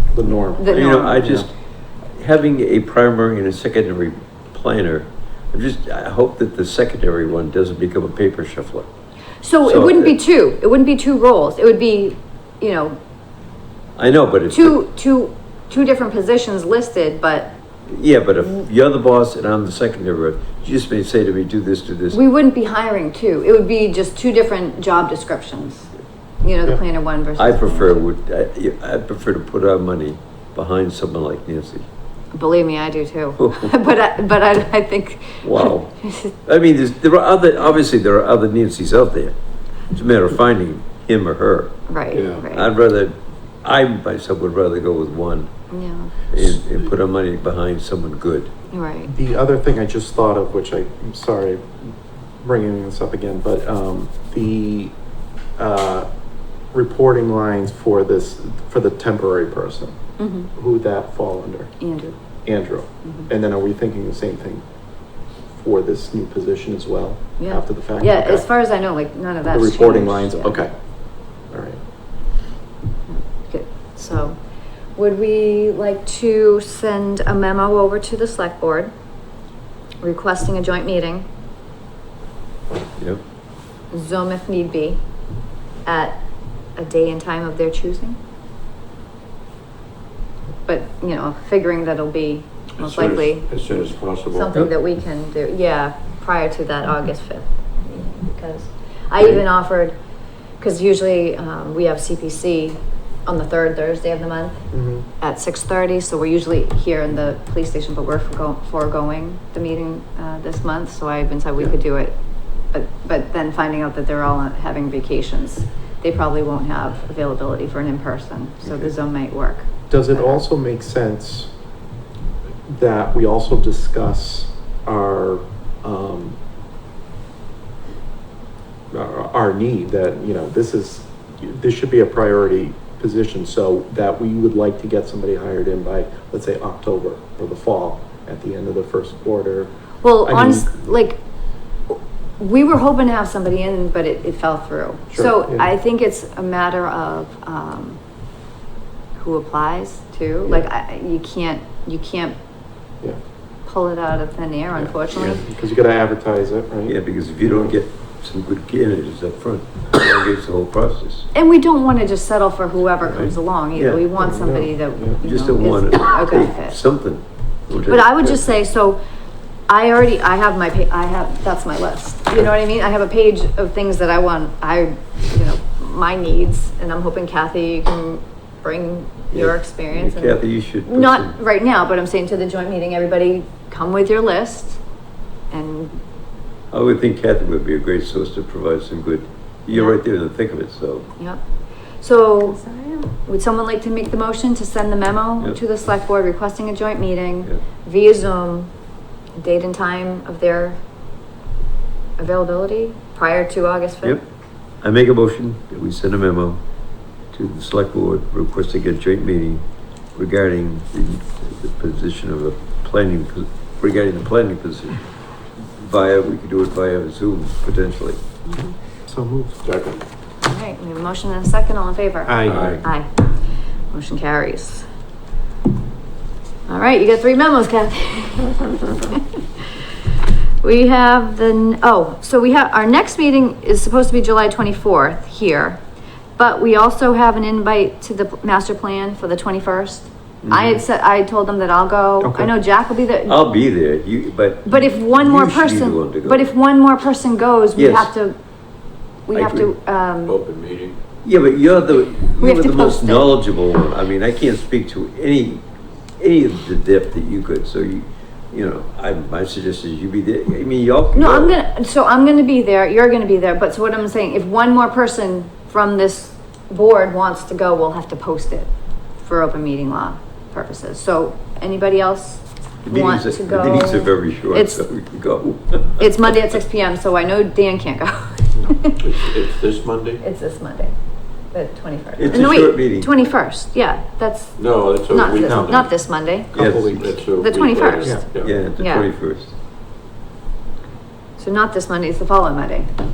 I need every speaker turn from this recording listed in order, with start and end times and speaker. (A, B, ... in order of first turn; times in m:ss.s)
0:00.1-0:01.5 A
0:00.6-0:01.4 B
0:00.7-0:01.5 C
0:02.2-0:08.9 C
0:09.4-0:13.0 B
0:09.6-0:10.2 C
0:14.0-0:14.8 C
0:14.5-0:17.5 B
0:17.9-0:22.2 C
0:22.1-0:25.9 B
0:26.4-0:28.0 B
0:27.4-0:31.8 C
0:32.3-0:36.3 B
0:33.4-0:33.7 C
0:35.4-0:39.4 C
0:39.9-0:41.8 C
0:41.9-0:42.7 B
0:42.1-0:42.4 A
0:42.3-0:45.5 C
0:45.7-0:46.2 B
0:46.3-0:48.5 C
0:48.7-0:49.1 B
0:49.1-0:54.9 A
0:55.6-0:56.1 A
0:56.7-0:59.9 A
1:00.2-1:00.5 B
1:00.6-1:01.8 A
1:01.8-1:02.2 B
1:02.4-1:04.6 A
1:05.6-1:08.4 A
1:07.4-1:10.6 B
1:09.5-1:10.7 A
1:11.5-1:11.8 A
1:13.1-1:14.4 B
1:15.0-1:18.9 B
1:20.0-1:21.3 B
1:23.9-1:25.0 B
1:25.8-1:26.2 B
1:26.8-1:28.2 B
1:30.7-1:33.5 B
1:32.8-1:34.5 D
1:34.3-1:40.0 B
1:40.6-1:44.7 B
1:44.7-1:45.1 A
1:45.2-1:52.2 B
1:52.7-2:00.4 B
1:59.9-2:01.5 A
2:02.7-2:06.4 A
2:08.9-2:19.7 A
2:20.0-2:21.2 B
2:20.2-2:20.8 A
2:21.9-2:28.0 B
2:25.1-2:25.7 A
2:29.2-2:32.4 B
2:33.7-2:35.4 B
2:34.8-2:37.8 A
2:36.9-2:41.3 C
2:41.3-2:46.8 B
2:43.1-2:44.0 C
2:44.2-2:45.2 A
2:45.2-2:48.4 C
2:47.9-2:49.0 B
2:49.7-3:04.8 B
2:59.3-3:01.4 C
3:05.5-3:06.0 B
3:06.7-3:11.1 C
3:09.7-3:10.0 B
3:11.2-3:11.4 B
3:12.0-3:18.7 B
3:19.4-3:20.8 B
3:22.2-3:24.2 B
3:24.8-3:26.6 C
3:27.3-3:29.6 C
3:30.2-3:35.1 C
3:35.6-3:38.2 C
3:38.5-3:38.8 B
3:39.1-3:39.6 A
3:39.6-3:40.0 D
3:40.4-3:43.2 B
3:42.3-3:42.8 A
3:42.5-3:42.8 C
3:42.5-3:42.8 D
3:43.9-3:44.9 B
3:46.7-3:49.9 B
3:50.6-3:55.8 B
3:56.4-4:03.4 B
4:00.4-4:00.8 A
4:02.2-4:02.5 A
4:03.3-4:06.5 C
4:04.7-4:08.4 B
4:07.8-4:08.1 C
4:09.3-4:10.4 B
4:09.3-4:09.7 C
4:10.3-4:11.0 D
4:11.2-4:15.6 C
4:12.4-4:13.4 B
4:16.2-4:21.6 C
4:21.2-4:28.7 B
4:29.2-4:34.9 B
4:32.8-4:36.1 C
4:36.0-4:39.1 B
4:39.0-4:40.2 D
4:40.2-4:40.9 B
4:41.5-4:46.6 B
4:42.2-4:43.1 C
4:44.6-4:46.0 D
4:45.4-4:45.8 A
4:46.5-4:47.2 C
4:46.5-4:47.1 A
4:46.9-4:48.6 D
4:47.4-4:49.1 B
4:48.4-4:49.5 C
4:51.4-4:52.9 B